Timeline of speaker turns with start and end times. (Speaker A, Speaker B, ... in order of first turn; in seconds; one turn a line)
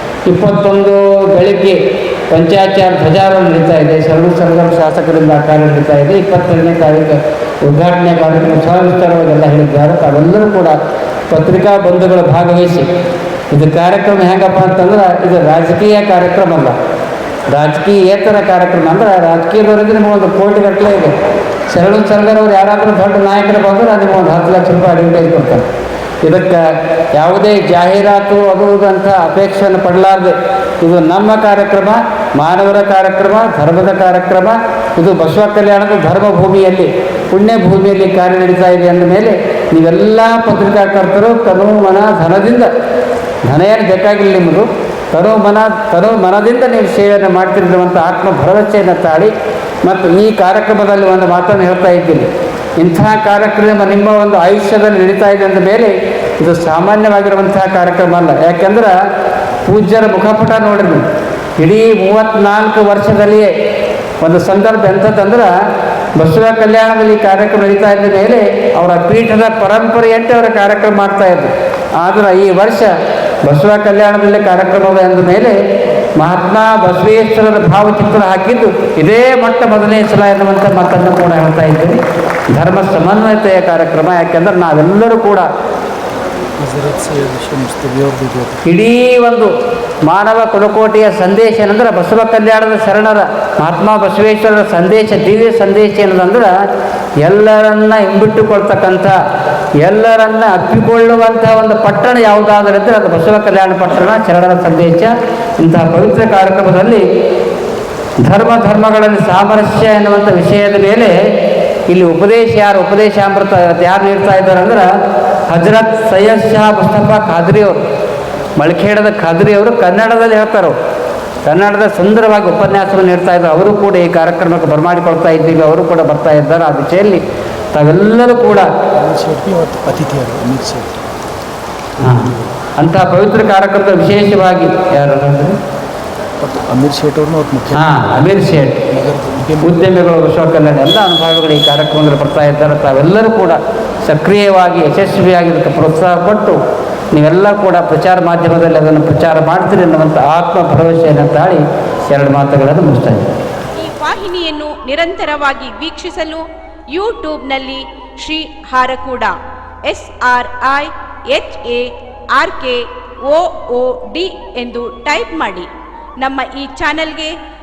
Speaker A: 0.3-1.8
Speaker A: 2.3-10.8
Speaker A: 11.3-12.9
Speaker A: 13.5-16.8
Speaker A: 17.5-21.1
Speaker A: 21.7-25.6
Speaker A: 26.2-42.7
Speaker A: 43.5-59.0
Speaker A: 59.6-61.0
Speaker A: 61.6-63.5
Speaker A: 64.2-65.5
Speaker A: 66.2-72.9
Speaker A: 73.4-75.6
Speaker A: 76.2-82.0
Speaker A: 82.5-85.5
Speaker B: 86.6-88.7
Speaker A: 88.7-89.5
Speaker A: 90.0-96.5
Speaker A: 97.2-99.2
Speaker A: 99.8-107.0
Speaker A: 108.2-111.2
Speaker A: 111.9-114.9
Speaker A: 115.5-117.8
Speaker A: 118.6-120.8
Speaker A: 121.5-127.2
Speaker A: 127.7-128.7
Speaker B: 128.9-131.0
Speaker A: 132.0-135.6
Speaker B: 136.4-138.0
Speaker A: 137.7-138.9
Speaker B: 138.9-139.8
Speaker A: 139.6-146.6
Speaker A: 147.1-153.3
Speaker C: 153.8-159.3
Speaker C: 159.9-165.7
Speaker C: 166.2-167.3